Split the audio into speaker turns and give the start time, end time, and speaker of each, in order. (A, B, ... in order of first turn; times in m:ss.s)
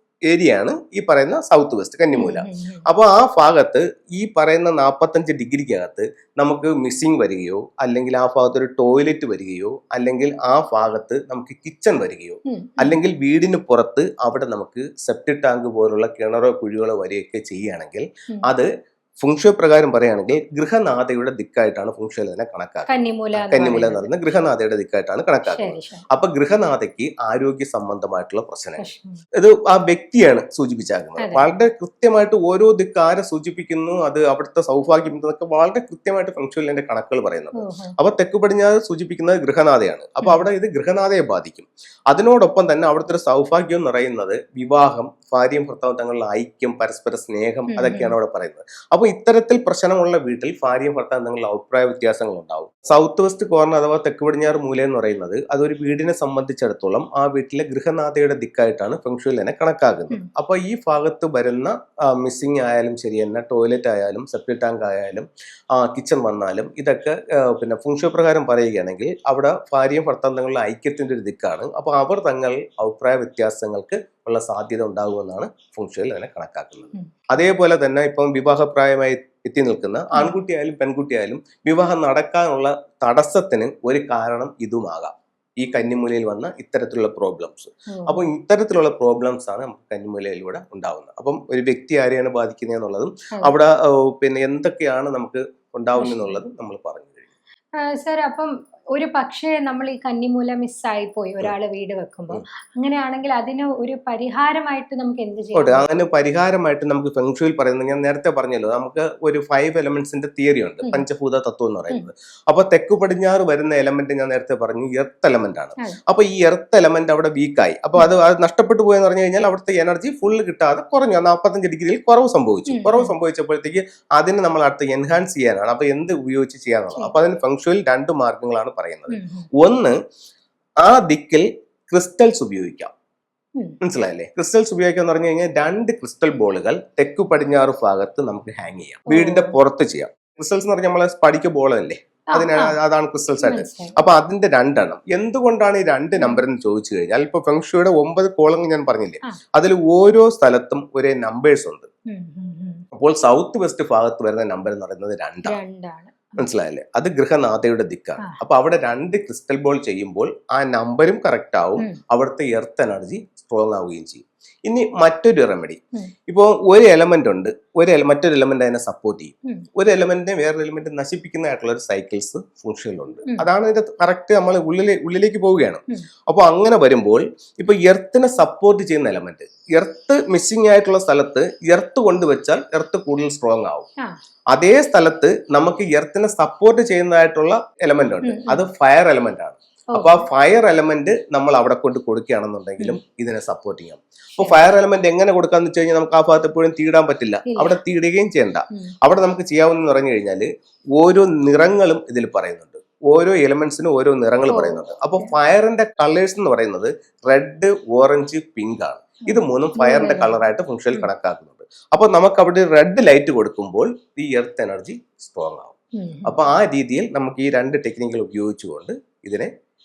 0:00.3-0:18.7 A
0:02.1-0:02.8 B
0:12.5-0:13.0 B
0:19.2-1:37.3 A
0:22.9-0:24.1 B
0:25.4-0:26.0 B
0:28.8-0:29.2 B
0:31.2-0:31.5 B
0:37.6-0:37.9 B
0:47.7-0:48.1 B
1:27.9-1:28.2 B
1:36.0-1:36.4 B
1:37.8-1:46.0 B
1:45.5-2:09.9 A
2:02.7-2:03.1 B
2:09.1-2:09.5 B
2:10.8-2:12.9 A
2:13.8-2:31.9 A
2:19.1-2:19.5 B
2:22.3-2:22.8 B
2:23.4-2:24.0 B
2:26.2-2:26.4 B
2:32.1-2:32.8 B
2:32.9-2:35.6 A
2:35.4-2:36.4 B
2:36.4-3:03.9 A
3:04.5-3:35.7 A
3:08.2-3:08.6 B
3:09.9-3:10.2 B
3:17.5-3:17.8 B
3:24.5-3:25.3 B
3:29.2-3:31.1 B
3:36.0-3:36.3 B
3:36.2-3:39.5 A